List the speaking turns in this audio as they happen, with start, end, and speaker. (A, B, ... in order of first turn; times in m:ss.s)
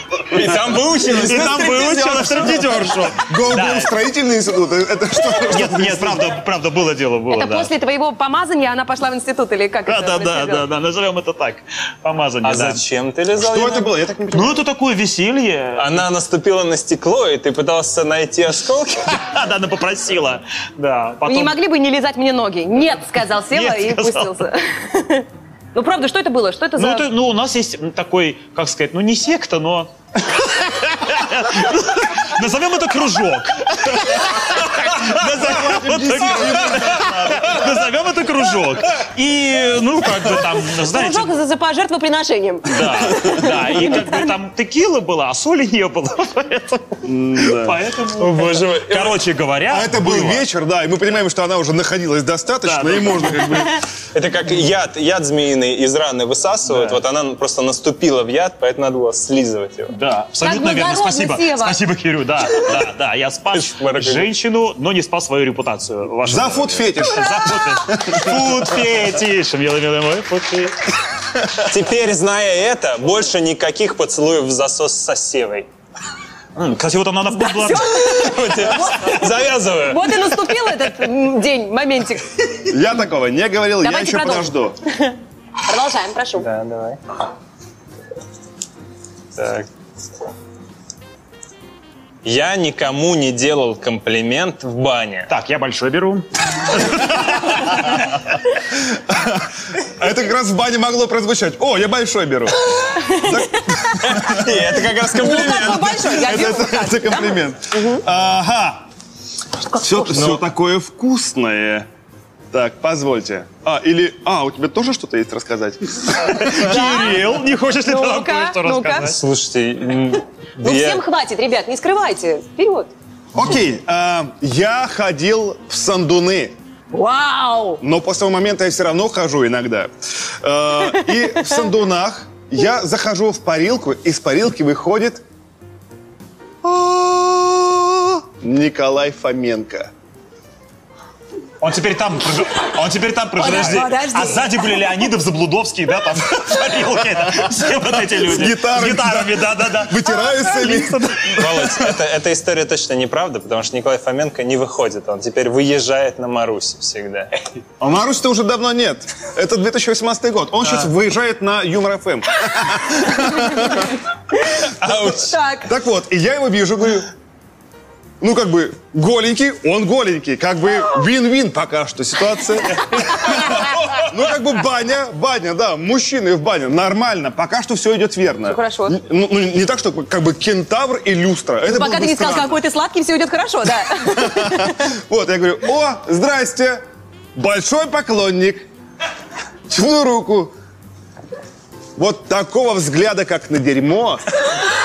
0:00.3-0:02.8 A
0:01.1-0:03.9 B
0:01.1-0:06.4 C
0:05.4-0:07.7 B
0:07.3-0:10.7 D
0:09.9-0:12.8 B
0:12.4-0:13.9 A
0:13.4-0:14.6 C
0:14.3-0:16.0 B
0:15.8-0:19.2 A
0:19.1-0:21.6 B
0:21.2-0:27.1 D
0:23.5-0:24.4 B
0:26.8-0:41.3 B
0:35.4-0:37.6 C
0:40.8-0:44.3 D
0:42.7-0:50.4 B
0:47.0-0:47.8 C
0:48.1-0:49.2 A
0:49.7-0:53.8 C
0:52.6-0:53.6 B
0:54.1-1:00.0 A
0:56.7-0:57.0 B
0:59.9-1:10.8 B
1:00.4-1:01.8 D
1:03.5-1:04.3 A
1:06.2-1:08.7 C
1:11.6-1:15.7 A
1:16.5-1:18.0 B
1:17.3-1:22.3 D
1:18.0-1:20.5 A
1:22.6-1:24.8 C
1:23.8-1:26.5 D
1:26.4-1:27.0 A
1:29.3-1:29.7 A
1:32.2-1:35.3 A
1:35.3-1:38.2 B
1:38.7-1:44.8 C
1:42.9-1:43.9 D
1:44.0-1:46.3 A
1:45.1-1:48.0 D
1:46.0-1:48.9 C
1:49.7-1:50.1 D
1:49.7-1:51.9 C
1:52.5-1:56.9 C
1:56.2-1:59.2 B
1:56.6-1:57.2 D
1:57.8-1:59.1 D
1:59.2-2:01.0 A
2:00.6-2:02.9 D
2:03.3-2:06.5 C
2:06.9-2:07.8 D
2:07.8-2:15.2 C
2:16.6-2:19.9 C
2:21.6-2:31.4 B
2:23.4-2:24.5 D
2:28.1-2:31.8 C
2:31.3-2:37.3 A
2:37.8-2:44.0 C
2:44.6-2:45.3 A
2:45.2-2:45.7 D
2:45.6-2:47.1 C
2:48.2-3:02.6 C
2:58.5-2:59.0 D
3:01.7-3:04.9 D
3:04.0-3:06.8 C
3:07.3-3:08.7 C
3:09.7-3:10.5 C
3:12.0-3:14.4 C